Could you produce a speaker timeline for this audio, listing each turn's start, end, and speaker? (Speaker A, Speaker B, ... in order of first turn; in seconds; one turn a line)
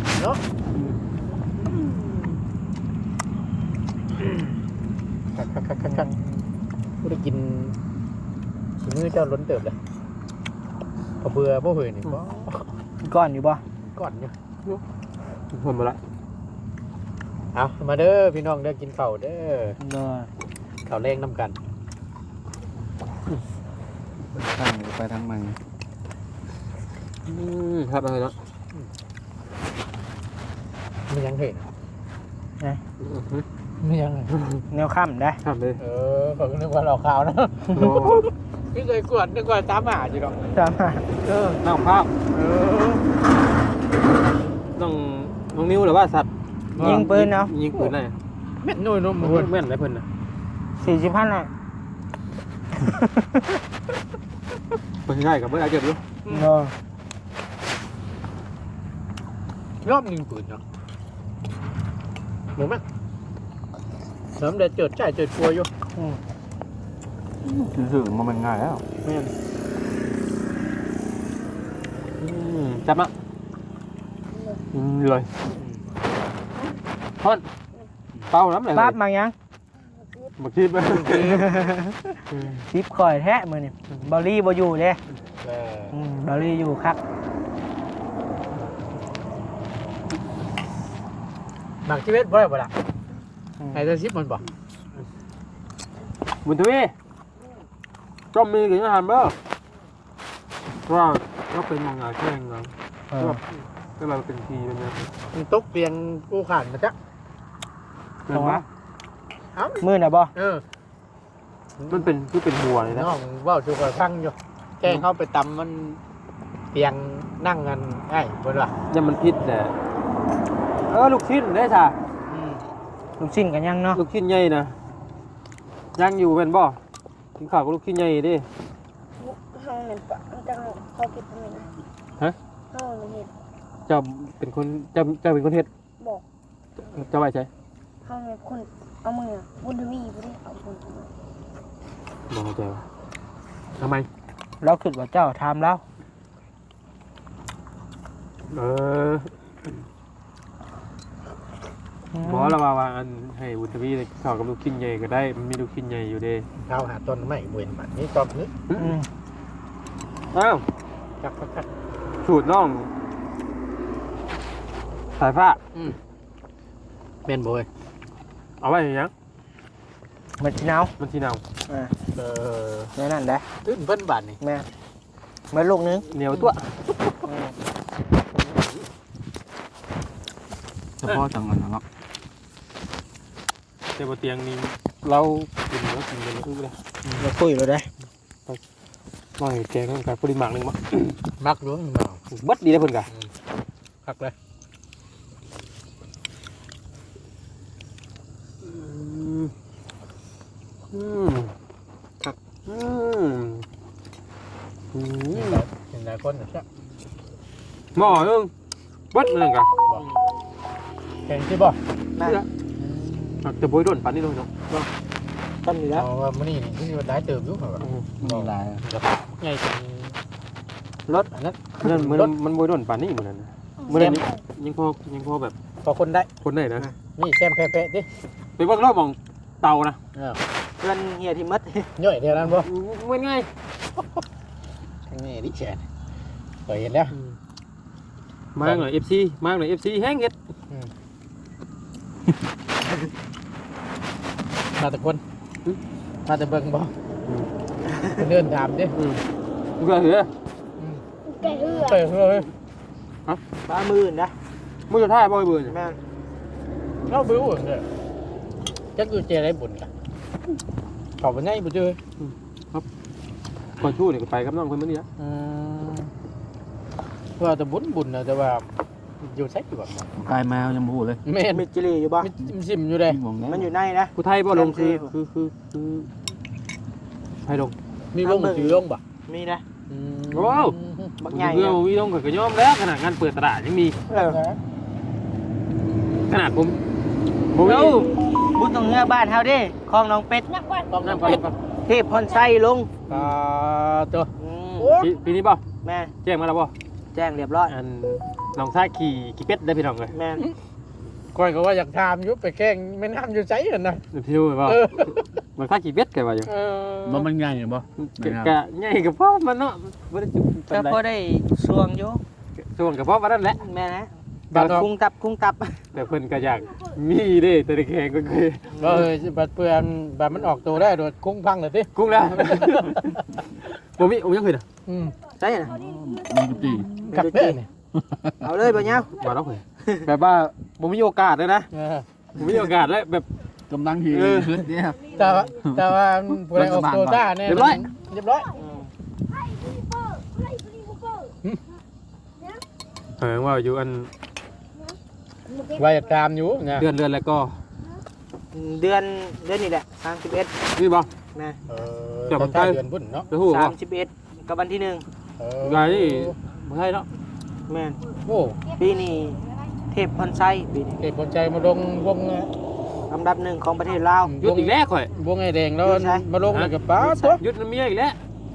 Speaker A: 5.3-6.1
Speaker B: 5.9-6.2
Speaker A: 7.0-7.8
Speaker A: 8.8-9.8
Speaker A: 11.2-12.7
Speaker B: 13.0-13.6
Speaker A: 13.8-14.3
Speaker C: 15.5-16.0
Speaker A: 17.5-19.8
Speaker B: 19.8-20.3
Speaker A: 20.9-21.6
Speaker D: 24.3-25.6
Speaker C: 27.3-28.4
Speaker A: 31.1-31.7
Speaker C: 33.0-33.5
Speaker A: 33.8-34.4
Speaker C: 34.4-34.6
Speaker B: 34.7-35.4
Speaker C: 35.4-35.8
Speaker A: 35.8-40.4
Speaker C: 37.8-38.3
Speaker B: 40.5-41.0
Speaker A: 41.2-41.6
Speaker C: 41.6-42.1
Speaker A: 42.3-43.0
Speaker C: 44.8-48.2
Speaker A: 46.8-47.1
Speaker B: 46.8-47.5
Speaker A: 48.6-49.5
Speaker C: 49.2-50.1
Speaker B: 50.8-51.5
Speaker B: 52.8-53.3
Speaker C: 55.1-56.1
Speaker B: 56.3-56.7
Speaker A: 59.8-60.6
Speaker A: 62.6-62.8
Speaker A: 64.3-65.7
Speaker D: 67.4-68.8
Speaker B: 69.0-69.3
Speaker C: 72.2-73.1
Speaker E: 74.3-74.6
Speaker C: 74.7-75.3
Speaker A: 75.6-75.8
Speaker C: 78.3-79.0
Speaker B: 78.7-79.3
Speaker E: 79.8-80.3
Speaker C: 80.4-81.5
Speaker A: 80.9-81.5
Speaker B: 81.2-85.0
Speaker C: 82.3-82.7
Speaker A: 85.4-86.0
Speaker B: 85.9-87.0
Speaker A: 91.8-92.7
Speaker B: 93.6-93.9
Speaker A: 93.7-94.4
Speaker C: 96.4-96.9
Speaker C: 98.3-99.3
Speaker C: 100.9-105.1
Speaker B: 103.1-103.4
Speaker A: 105.3-107.0
Speaker C: 108.3-108.6
Speaker B: 108.3-108.6
Speaker A: 109.5-109.8
Speaker B: 109.8-110.3
Speaker A: 110.4-110.6
Speaker A: 111.8-112.1
Speaker C: 111.9-113.1
Speaker A: 112.8-116.0
Speaker A: 116.7-118.7
Speaker C: 118.9-119.8
Speaker C: 120.9-122.0
Speaker A: 122.3-122.6
Speaker B: 123.2-124.0
Speaker C: 124.0-124.8
Speaker C: 126.0-126.8
Speaker C: 127.4-128.5
Speaker E: 129.2-131.7
Speaker E: 132.7-133.3
Speaker C: 133.9-135.7
Speaker C: 136.8-137.5
Speaker E: 138.1-141.1
Speaker C: 142.3-142.8
Speaker C: 143.8-144.1
Speaker B: 144.6-145.8
Speaker C: 148.5-149.3
Speaker B: 152.1-152.6
Speaker C: 152.3-156.5
Speaker A: 156.6-158.5
Speaker B: 158.8-159.1
Speaker C: 160.3-160.6
Speaker A: 161.2-161.7
Speaker C: 162.2-162.9
Speaker C: 165.2-165.6
Speaker A: 167.2-167.7
Speaker C: 168.6-169.1
Speaker B: 170.4-170.9
Speaker C: 171.0-171.4
Speaker B: 171.7-171.9
Speaker A: 172.2-172.9
Speaker B: 173.0-173.5
Speaker A: 173.6-174.4
Speaker B: 174.4-174.7
Speaker B: 175.5-176.1
Speaker C: 176.1-176.7
Speaker B: 177.2-177.5
Speaker A: 178.4-178.8
Speaker D: 181.0-181.8
Speaker C: 184.0-186.8
Speaker B: 187.2-187.9
Speaker C: 189.4-191.2
Speaker A: 191.4-192.2
Speaker C: 192.3-193.1
Speaker A: 194.1-194.3
Speaker C: 198.6-199.5
Speaker C: 200.9-201.5
Speaker C: 202.7-203.7
Speaker C: 204.9-205.6
Speaker A: 205.3-206.7
Speaker C: 207.9-208.5
Speaker A: 208.0-208.3
Speaker C: 209.1-209.7
Speaker A: 211.3-211.8
Speaker A: 212.8-213.4
Speaker C: 213.4-214.5
Speaker B: 215.6-216.1
Speaker A: 216.0-220.2
Speaker D: 218.2-218.8
Speaker A: 221.3-222.3
Speaker C: 221.8-225.6
Speaker E: 223.8-224.4
Speaker A: 223.9-224.2
Speaker A: 225.8-226.3
Speaker C: 226.4-226.9
Speaker A: 227.2-228.1
Speaker C: 228.6-230.0
Speaker A: 230.2-230.4
Speaker B: 230.8-231.9
Speaker A: 232.0-232.7
Speaker C: 232.4-233.5
Speaker A: 234.0-234.2
Speaker A: 235.1-235.8
Speaker A: 236.7-237.1
Speaker C: 237.1-237.4
Speaker C: 238.6-240.3
Speaker A: 244.8-245.2
Speaker A: 246.3-246.9
Speaker A: 248.2-248.9
Speaker C: 248.9-249.2
Speaker C: 249.8-250.3
Speaker A: 250.8-252.5
Speaker E: 251.3-252.1
Speaker B: 253.7-254.3
Speaker C: 254.9-255.8
Speaker B: 255.7-256.0
Speaker A: 257.1-257.9
Speaker A: 259.0-259.9
Speaker A: 261.2-262.0
Speaker C: 262.2-262.8
Speaker C: 263.8-265.1
Speaker A: 265.2-266.1
Speaker A: 267.4-268.7
Speaker A: 269.2-270.1
Speaker D: 270.2-271.2
Speaker A: 271.3-271.6
Speaker B: 271.5-272.3
Speaker A: 272.2-273.2
Speaker D: 273.1-273.7
Speaker B: 273.4-275.1
Speaker C: 274.2-276.1
Speaker C: 277.4-277.8
Speaker A: 278.1-279.0
Speaker B: 278.2-279.6
Speaker A: 279.9-281.1
Speaker C: 280.3-280.8
Speaker B: 281.2-281.8
Speaker C: 281.3-284.0
Speaker B: 284.1-284.4
Speaker A: 284.1-284.6
Speaker C: 286.3-286.8
Speaker C: 287.5-288.1
Speaker B: 287.6-290.5
Speaker E: 290.5-291.4
Speaker A: 290.9-291.4
Speaker C: 291.0-291.6
Speaker B: 291.9-292.9
Speaker C: 293.1-293.4
Speaker A: 293.1-295.1
Speaker B: 294.4-295.0
Speaker C: 295.0-295.6
Speaker B: 295.8-296.1
Speaker C: 296.2-296.7
Speaker B: 297.1-297.7
Speaker C: 297.7-300.1
Speaker B: 300.1-300.4
Speaker A: 301.3-304.0
Speaker C: 304.1-306.5
Speaker A: 304.6-305.3
Speaker A: 306.5-307.3
Speaker D: 307.0-308.6
Speaker C: 308.0-311.0
Speaker B: 310.7-312.2
Speaker C: 312.6-313.6
Speaker B: 313.6-315.8
Speaker A: 314.5-314.9
Speaker C: 315.9-319.1
Speaker A: 318.8-323.2
Speaker C: 321.9-323.1
Speaker C: 324.0-324.6
Speaker A: 324.9-325.1
Speaker B: 325.4-325.8
Speaker D: 325.7-327.1
Speaker B: 327.1-327.6
Speaker A: 327.1-327.7
Speaker D: 327.9-328.4
Speaker B: 328.4-329.1
Speaker C: 329.1-331.7
Speaker A: 331.7-332.1
Speaker C: 332.4-333.3
Speaker D: 333.7-337.8
Speaker C: 334.1-334.7
Speaker A: 335.1-338.5
Speaker C: 337.4-337.9
Speaker B: 338.6-338.9
Speaker E: 339.3-341.4
Speaker C: 343.2-344.1
Speaker E: 345.5-346.1
Speaker A: 345.8-346.9
Speaker C: 346.7-347.6
Speaker B: 348.5-350.6
Speaker C: 350.8-351.1
Speaker B: 351.3-351.6
Speaker A: 351.7-353.3
Speaker C: 352.3-353.7
Speaker B: 353.4-355.1
Speaker A: 355.4-356.4
Speaker C: 355.6-357.1
Speaker B: 357.7-358.0
Speaker A: 358.3-358.6
Speaker B: 358.8-359.4
Speaker B: 359.9-361.0
Speaker A: 361.0-362.5
Speaker B: 363.1-364.4
Speaker A: 364.2-367.4
Speaker C: 364.4-365.1
Speaker B: 365.8-366.3
Speaker C: 366.5-366.8
Speaker B: 367.0-367.4
Speaker C: 367.4-368.2